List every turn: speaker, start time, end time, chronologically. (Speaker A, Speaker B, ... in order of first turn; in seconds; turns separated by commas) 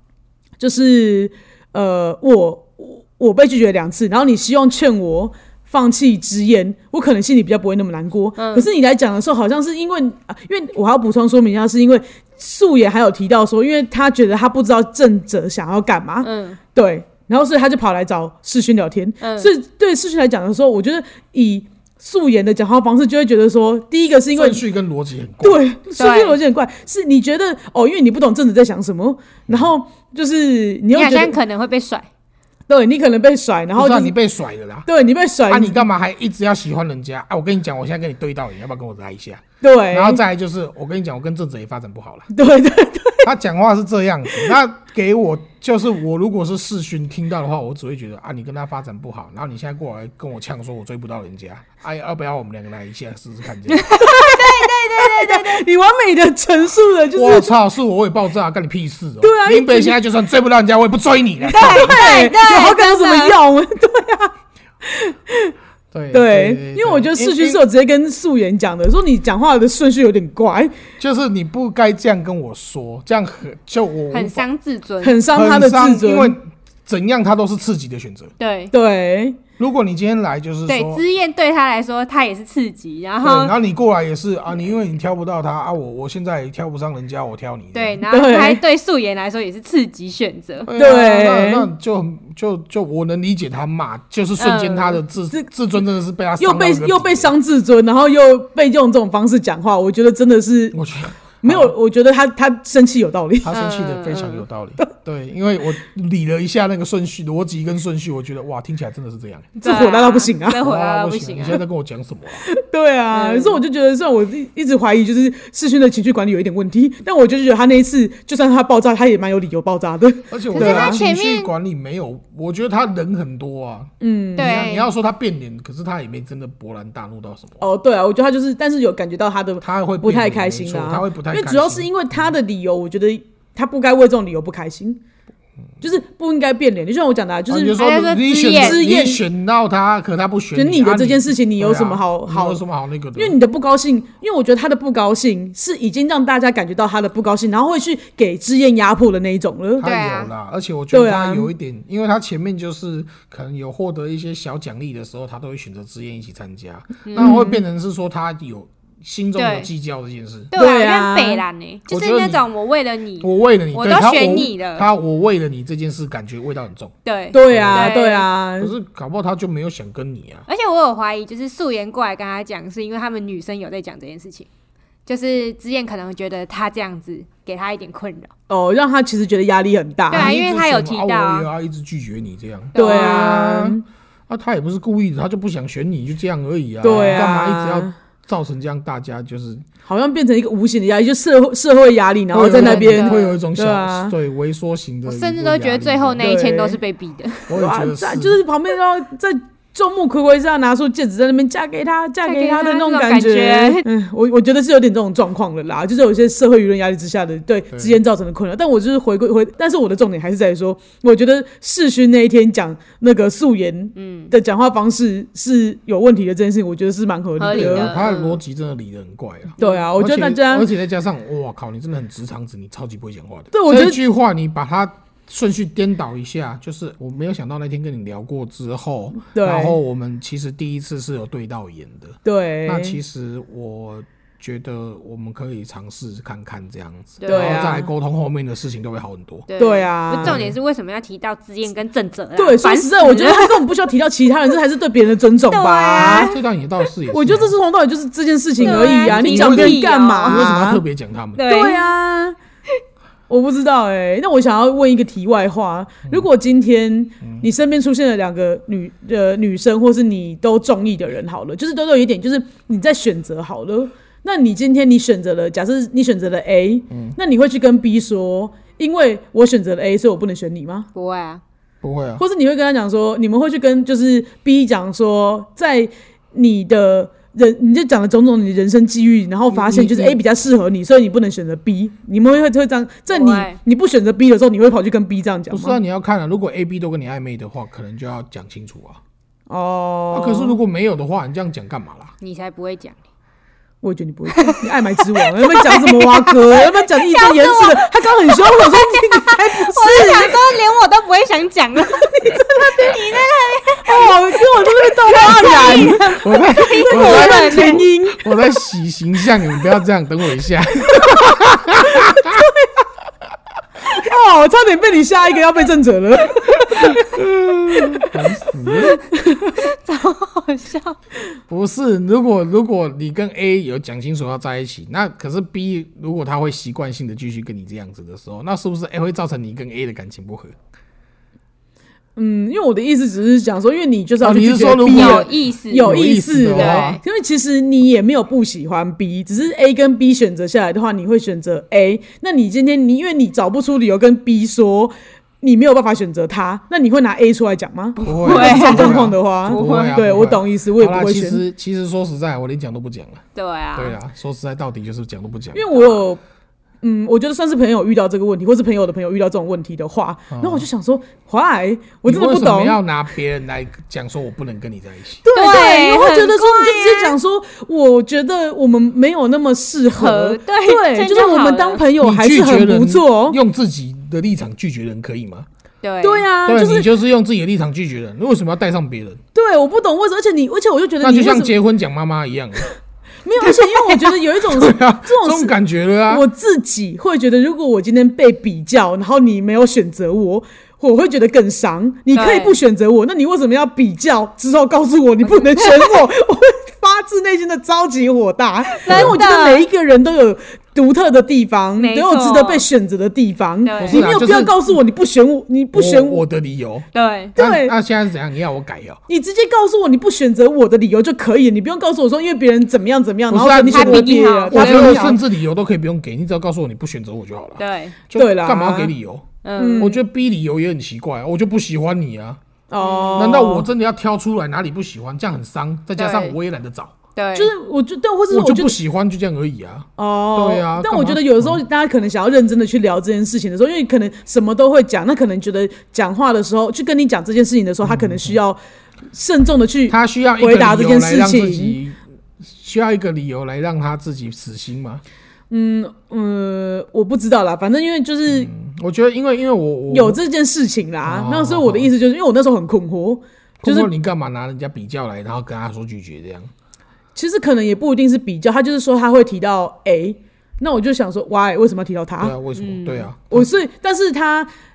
Speaker A: 0.6-24.6, Speaker B: 8.4-8.7, Speaker B: 16.2-16.6, Speaker B: 19.2-19.5, Speaker C: 24.3-25.6, Speaker A: 25.4-31.4, Speaker B: 26.0-26.4, Speaker B: 30.9-32.1, Speaker A: 32.7-34.1, Speaker C: 33.7-34.9, Speaker A: 34.9-35.8, Speaker C: 35.5-42.3, Speaker A: 39.6-40.2, Speaker A: 42.3-43.3, Speaker C: 43.2-53.9, Speaker B: 53.7-55.6, Speaker A: 53.9-57.5, Speaker C: 57.1-62.0, Speaker A: 59.2-60.0, Speaker B: 61.5-63.4, Speaker A: 61.5-64.3, Speaker A: 64.8-65.5, Speaker C: 65.9-67.6, Speaker A: 66.1-70.7, Speaker C: 71.0-74.4, Speaker B: 74.1-75.2, Speaker A: 75.0-76.4, Speaker C: 75.3-78.3, Speaker B: 78.4-78.7, Speaker A: 78.7-79.4, Speaker C: 79.6-81.0, Speaker B: 80.7-83.5, Speaker C: 83.2-88.0, Speaker B: 87.7-90.7, Speaker A: 88.1-88.6, Speaker C: 90.6-97.3, Speaker A: 90.7-91.7, Speaker B: 94.4-95.0, Speaker A: 96.4-100.8, Speaker C: 100.7-101.7, Speaker A: 101.4-103.5, Speaker C: 103.4-109.5, Speaker B: 103.5-104.4, Speaker B: 109.6-111.6, Speaker A: 109.6-110.6, Speaker C: 110.6-112.5, Speaker A: 112.4-121.0, Speaker B: 113.1-113.6, Speaker C: 120.3-127.6, Speaker B: 120.5-121.5, Speaker A: 124.0-124.7, Speaker B: 124.4-124.9, Speaker A: 127.6-135.0, Speaker C: 129.6-131.9, Speaker A: 135.8-139.2, Speaker C: 137.5-143.4, Speaker B: 137.8-138.8, Speaker A: 140.5-142.6, Speaker A: 143.1-149.9, Speaker C: 149.8-160.5, Speaker B: 149.8-150.3, Speaker A: 150.9-151.5, Speaker B: 157.1-157.4, Speaker A: 157.2-157.6, Speaker B: 159.4-159.7, Speaker B: 160.5-164.9, Speaker A: 160.5-161.4, Speaker C: 161.9-162.4, Speaker C: 163.2-166.9, Speaker B: 167.0-168.3, Speaker A: 167.3-168.7, Speaker C: 167.5-167.9, Speaker C: 168.6-170.4, Speaker B: 170.5-174.5, Speaker B: 175.1-178.3, Speaker A: 178.5-180.3, Speaker B: 180.1-181.5, Speaker C: 180.1-189.6, Speaker B: 182.7-183.5, Speaker A: 182.8-183.8, Speaker A: 186.8-187.9, Speaker B: 186.9-187.2, Speaker A: 189.8-194.1, Speaker C: 192.3-196.3, Speaker B: 192.4-193.4, Speaker B: 195.1-197.5, Speaker A: 196.2-196.8, Speaker C: 197.5-198.4, Speaker A: 197.5-218.0, Speaker B: 202.2-203.8, Speaker C: 207.7-208.0, Speaker B: 213.9-214.3, Speaker B: 217.4-218.4, Speaker C: 217.5-239.4, Speaker A: 219.6-220.7, Speaker A: 223.5-224.0, Speaker A: 229.3-229.8, Speaker A: 232.2-233.0, Speaker B: 237.2-237.8, Speaker A: 237.3-237.9, Speaker B: 239.5-243.7, Speaker A: 239.6-240.4, Speaker C: 240.2-240.6, Speaker A: 242.3-246.3, Speaker B: 245.5-246.4, Speaker C: 245.9-247.5, Speaker A: 247.1-250.8, Speaker C: 248.6-251.5, Speaker B: 248.6-250.5, Speaker B: 251.4-251.9, Speaker A: 251.4-252.3, Speaker A: 253.3-270.9, Speaker C: 266.9-267.2, Speaker B: 270.9-271.4, Speaker C: 271.8-272.2, Speaker A: 272.2-285.8, Speaker C: 279.5-280.2, Speaker B: 283.1-283.6, Speaker C: 285.5-289.0, Speaker A: 289.5-290.6, Speaker C: 290.1-292.1, Speaker B: 292.2-293.0, Speaker A: 293.8-300.4, Speaker B: 294.4-294.6, Speaker B: 295.3-307.8, Speaker A: 302.2-302.9, Speaker A: 303.8-308.2, Speaker C: 305.6-312.4, Speaker A: 313.9-319.6, Speaker C: 317.0-319.0, Speaker B: 319.6-320.9, Speaker C: 321.5-330.6, Speaker A: 332.1-351.4, Speaker C: 334.2-337.0, Speaker B: 334.9-336.0, Speaker B: 336.5-337.0, Speaker C: 348.0-353.2, Speaker B: 348.0-350.0, Speaker B: 353.3-353.9, Speaker C: 353.8-356.0, Speaker A: 355.5-356.2, Speaker A: 356.8-362.8, Speaker C: 360.3-360.6, Speaker C: 362.0-365.2, Speaker A: 365.2-373.4, Speaker B: 365.3-367.2, Speaker B: 369.9-371.8, Speaker C: 372.0-375.5, Speaker B: 375.8-376.2, Speaker A: 376.0-376.9, Speaker C: 376.4-379.2, Speaker A: 379.3-381.5, Speaker C: 381.0-382.7, Speaker A: 383.2-385.5, Speaker C: 384.5-386.2, Speaker A: 386.1-406.2, Speaker B: 392.1-392.6, Speaker B: 395.2-396.1, Speaker B: 398.8-399.6, Speaker C: 398.9-399.2, Speaker B: 401.8-402.7, Speaker B: 403.6-404.1, Speaker C: 403.8-404.5, Speaker C: 405.7-409.0, Speaker B: 406.9-407.4, Speaker A: 407.4-407.7, Speaker A: 409.1-415.2, Speaker C: 413.3-422.4, Speaker B: 413.7-415.2, Speaker B: 417.6-418.0, Speaker A: 418.1-418.9, Speaker B: 419.4-419.9, Speaker A: 419.6-420.0, Speaker A: 422.7-423.7, Speaker B: 422.8-423.4, Speaker C: 423.1-426.9, Speaker B: 425.9-426.4, Speaker B: 427.1-427.5, Speaker A: 427.3-428.8, Speaker C: 428.3-431.6, Speaker A: 430.0-438.6, Speaker C: 437.8-438.4, Speaker A: 439.1-441.8, Speaker C: 439.9-445.0, Speaker A: 445.5-448.5, Speaker C: 448.3-450.2, Speaker A: 449.9-453.9, Speaker C: 451.0-451.9, Speaker C: 453.6-456.5, Speaker A: 457.1-462.4, Speaker C: 462.2-463.5, Speaker B: 462.6-463.1, Speaker A: 463.3-464.5